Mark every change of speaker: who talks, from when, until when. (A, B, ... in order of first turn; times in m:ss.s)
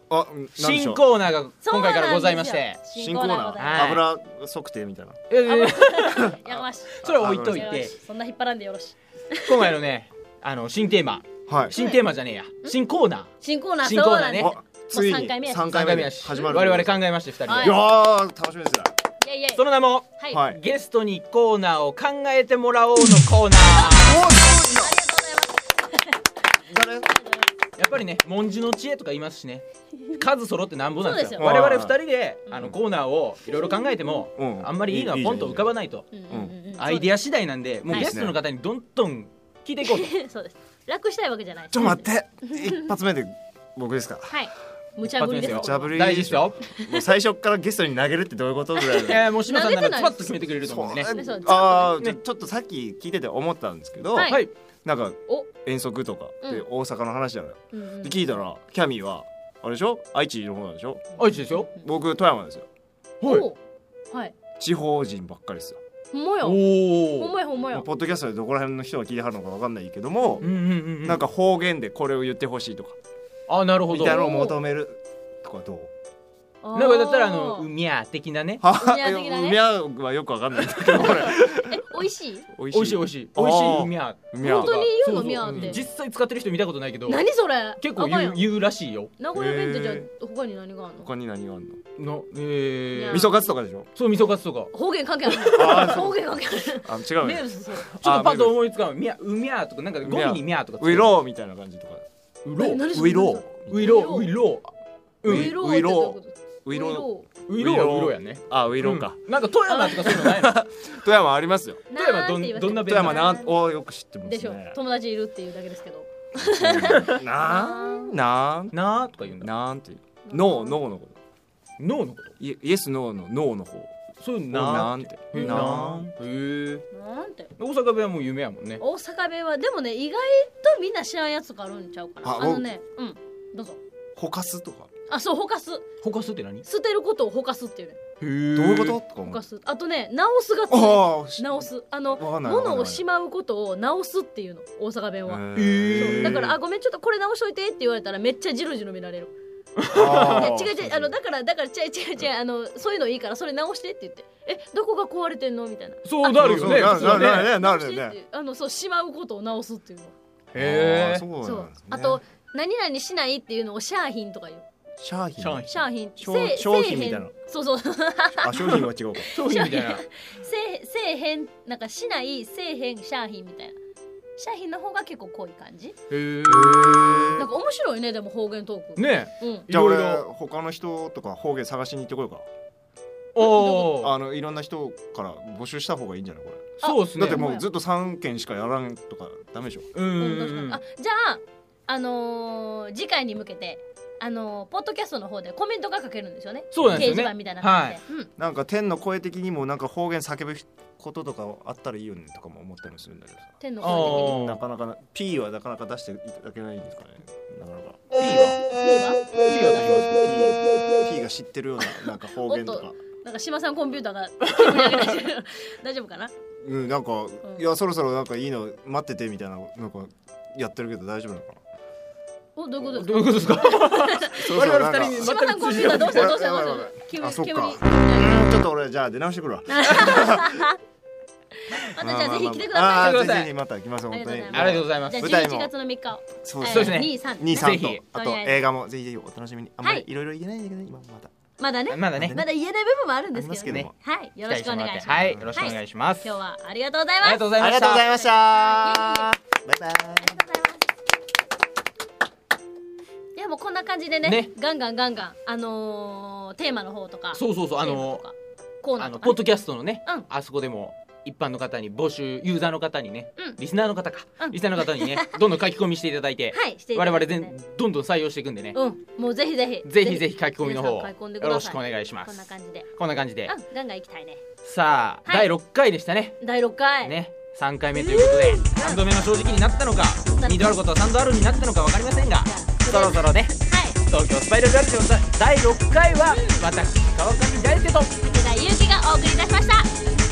0:00.1-0:01.0 A
0:00.6-0:02.8 B
0:01.6-0:04.0 C
0:02.9-0:05.2 A
0:03.6-0:04.0 B
0:05.3-0:06.4 B
0:05.4-0:09.7 C
0:06.1-0:07.8 A
0:07.0-0:07.9 B
0:09.4-0:14.5 B
0:11.5-0:11.8 A
0:11.7-0:12.0 C
0:13.4-0:15.7 C
0:14.4-0:18.9 A
0:15.7-0:17.8 B
0:17.5-0:17.8 C
0:19.2-0:19.6 C
0:19.6-0:24.3 B
0:20.3-0:20.6 A
0:23.6-0:27.5 C
0:23.8-0:25.0 A
0:26.7-0:27.1 A
0:27.8-0:36.1 B
0:31.0-0:31.5 C
0:31.4-0:32.0 A
0:32.5-0:32.8 A
0:34.3-0:35.7 A
0:36.1-0:37.1 C
0:36.3-0:36.6 A
0:36.7-0:40.1 B
0:37.9-0:38.4 A
0:39.8-0:42.9 C
0:41.7-0:44.4 A
0:44.3-0:46.0 C
0:45.0-0:46.6 B
0:45.1-0:49.3 A
0:48.8-0:51.1 B
0:49.4-0:50.4 C
0:50.6-1:01.1 A
0:51.0-0:52.0 C
0:54.1-0:54.4 C
0:57.7-0:58.4 C
1:01.2-1:01.7 B
1:01.7-1:02.6 A
1:03.2-1:03.4 B
1:03.2-1:03.6 C
1:04.6-1:05.8 A
1:06.1-1:07.8 C
1:06.4-1:07.3 B
1:07.7-1:10.5 A
1:10.4-1:11.2 B
1:11.0-1:13.0 A
1:13.5-1:14.2 B
1:13.9-1:15.9 A
1:14.0-1:14.6 C
1:16.6-1:17.7 C
1:16.7-1:18.6 B
1:18.6-1:24.8 A
1:18.8-1:19.6 C
1:20.9-1:22.5 C
1:22.7-1:29.1 B
1:24.4-1:25.8 C
1:25.4-1:25.8 A
1:27.1-1:28.4 C
1:29.2-1:31.1 C
1:29.3-1:30.1 A
1:31.0-1:31.8 A
1:32.0-1:33.3 B
1:32.9-1:33.3 C
1:33.1-1:33.9 A
1:34.0-1:34.7 B
1:34.7-1:37.9 C
1:35.4-1:38.6 A
1:35.7-1:35.9 B
1:37.9-1:41.2 B
1:40.0-1:42.0 A
1:42.4-1:42.9 B
1:42.6-1:44.3 C
1:42.9-1:43.7 A
1:43.7-1:45.6 B
1:45.2-1:49.2 A
1:45.2-1:47.3 C
1:47.5-1:50.6 B
1:49.7-1:50.2 C
1:49.8-1:51.8 A
1:51.9-1:53.6 C
1:51.9-1:53.4 B
1:52.8-1:54.8 A
1:54.2-1:58.2 C
1:56.4-1:58.8 A
1:56.9-1:57.2 B
1:58.7-1:59.5 B
1:59.4-2:01.2 A
2:00.2-2:00.8 C
2:01.8-2:02.3 B
2:02.4-2:03.9 A
2:04.2-2:06.8 B
2:04.5-2:06.1 A
2:05.3-2:05.8 C
2:06.9-2:07.5 C
2:07.6-2:08.8 B
2:08.8-2:13.8 C
2:12.2-2:12.7 A
2:14.2-2:14.9 A
2:15.1-2:15.8 C
2:16.0-2:16.6 B
2:16.6-2:18.0 C
2:18.2-2:19.0 B
2:18.5-2:19.4 A
2:19.2-2:29.3 C
2:20.7-2:23.0 A
2:25.3-2:26.6 A
2:25.5-2:26.5 B
2:29.8-2:30.5 B
2:29.9-2:31.1 A
2:30.1-2:40.1 C
2:36.0-2:37.5 B
2:36.3-2:38.2 A
2:40.5-2:42.2 A
2:40.5-2:41.3 B
2:41.4-2:44.6 C
2:45.0-2:47.3 A
2:45.4-2:45.8 B
2:45.6-2:48.6 C
2:48.4-2:49.3 A
2:48.5-2:50.0 B
2:49.2-2:53.8 C
2:54.4-2:56.0 C
2:56.1-2:57.3 B
2:56.5-2:57.5 A
2:57.3-2:59.7 C
2:59.0-3:00.2 B
2:59.7-3:02.5 A
3:03.3-3:04.1 B
3:03.4-3:09.9 A
3:03.5-3:03.9 C
3:06.8-3:07.7 C
3:06.8-3:07.5 B
3:09.9-3:10.8 B
3:10.2-3:18.3 C
3:16.7-3:18.0 B
3:16.8-3:17.2 A
3:18.4-3:28.0 A
3:23.6-3:24.4 C
3:23.8-3:24.6 B
3:28.2-3:28.6 B
3:28.6-3:30.1 C
3:29.4-3:30.2 B
3:30.0-3:33.0 A
3:32.3-3:36.3 C
3:34.5-3:35.1 B
3:36.6-3:41.6 A
3:42.5-3:48.5 C
3:42.8-3:46.4 B
3:44.2-3:50.7 A
3:49.7-3:50.8 C
3:51.8-3:53.4 C
3:51.9-3:55.7 A
3:52.9-3:53.5 B
3:54.1-3:58.6 C
3:54.5-3:55.3 B
3:56.3-4:01.3 A
3:56.6-3:58.0 B
3:59.8-4:00.1 C
4:01.6-4:07.5 C
4:01.9-4:02.4 B
4:02.1-4:02.5 A
4:03.3-4:03.9 A
4:04.5-4:06.3 B
4:05.1-4:05.7 A
4:07.2-4:08.1 B
4:07.6-4:10.4 A
4:08.0-4:09.3 C
4:10.2-4:10.8 C
4:13.3-4:20.3 C
4:14.2-4:14.5 B
4:17.3-4:18.2 B
4:19.0-4:28.8 B
4:24.4-4:25.4 C
4:26.5-4:27.5 C
4:28.7-4:32.9 C
4:29.8-4:33.5 B
4:33.4-4:34.4 C
4:34.6-4:36.4 B
4:35.2-4:35.5 C
4:36.4-4:37.2 C
4:37.0-4:43.6 B
4:37.9-4:39.0 C
4:40.2-4:41.7 C
4:42.4-4:44.0 C
4:44.1-4:48.1 B
4:46.2-4:46.6 C
4:48.2-4:49.9 C